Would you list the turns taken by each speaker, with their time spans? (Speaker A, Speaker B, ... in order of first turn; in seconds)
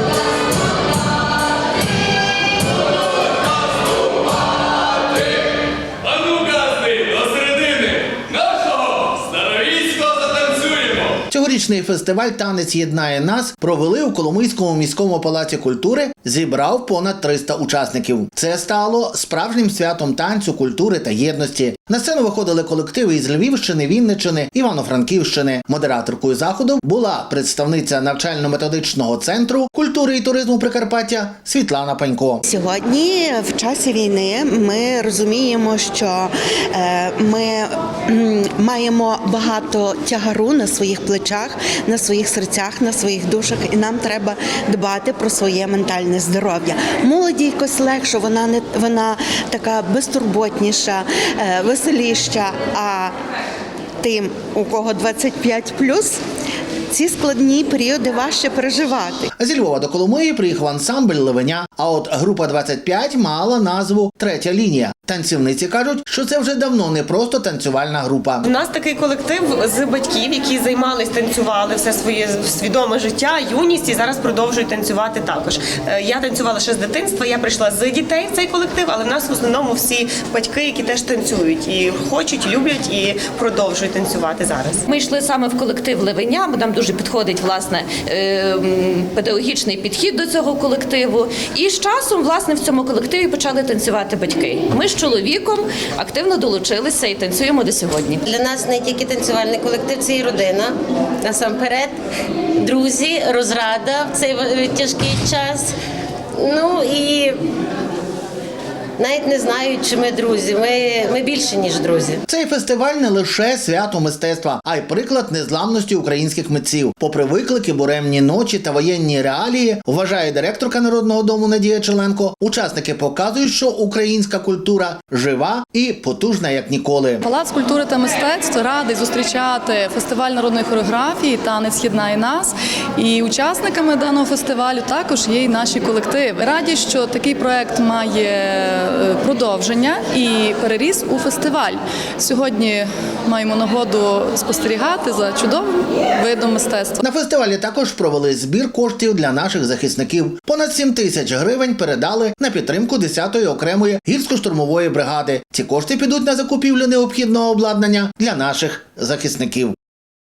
Speaker A: 11.3-32.4, 59.4-68.5, 112.3-127.2, 147.0-159.8
Speaker B: 32.5-53.2, 54.0-56.2, 56.9-59.3
Speaker C: 68.4-84.9
Speaker D: 84.9-98.2
Speaker E: 98.3-102.0, 102.6-105.7, 106.4-107.4, 109.0-112.2
Speaker F: 127.2-147.0